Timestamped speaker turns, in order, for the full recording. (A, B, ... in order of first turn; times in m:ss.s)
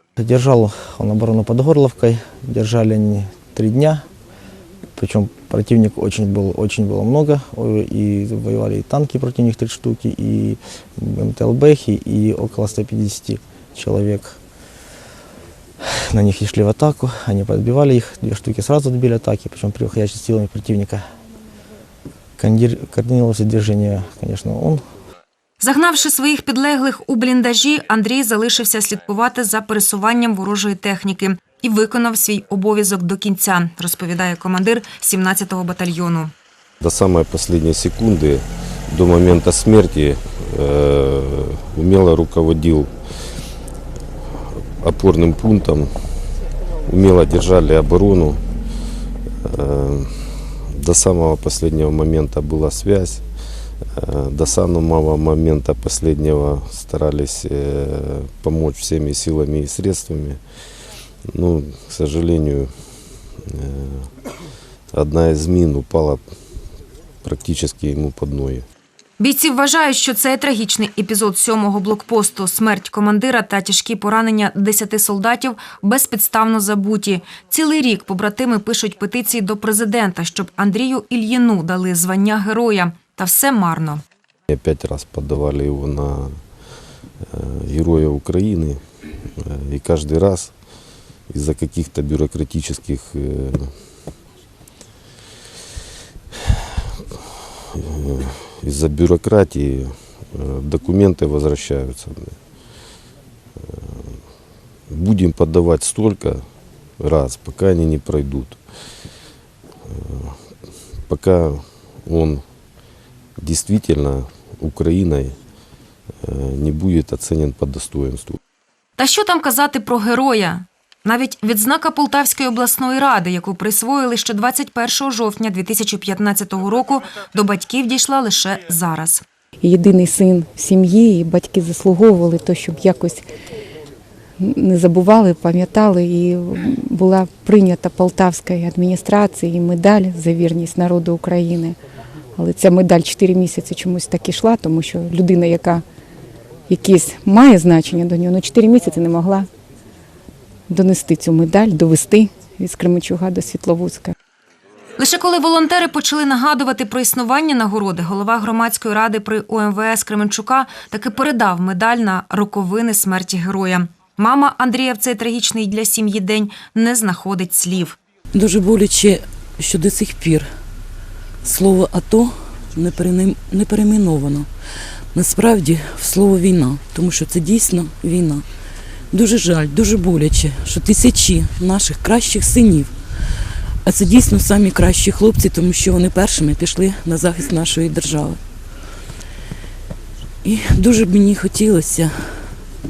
0:00.2-0:04.0 A
0:05.0-0:14.4 A
0:16.1-0:21.0 A
0:22.4-0:24.8 A
0:25.6-0:36.3 B
0:36.8-0:43.2 C
0:44.8-0:46.3 C
0:46.8-0:48.5 C
0:49.4-0:53.2 C
0:53.8-1:00.4 C
1:01.3-1:04.1 C
1:04.9-1:06.2 C
1:07.2-1:08.6 C
1:09.2-1:24.0 B
1:24.5-1:26.4 C
1:27.2-1:30.6 C
1:31.3-1:34.0 C
1:37.7-1:42.4 C
1:43.6-1:44.2 C
1:44.9-1:46.4 C
1:47.0-1:48.6 C
1:49.8-1:50.4 C
1:51.0-1:52.4 C
1:53.4-1:55.4 C
1:56.2-1:58.4 C
1:59.0-2:09.2 B
2:09.6-2:13.2 D
2:14.4-2:21.8 D
2:22.3-2:25.8 D
2:26.7-2:29.5 D
2:30.7-2:34.1 D
2:35.0-2:48.0 B
2:48.3-2:50.4 E
2:51.4-2:58.4 E
2:59.1-3:08.4 E
3:10.4-3:12.6 E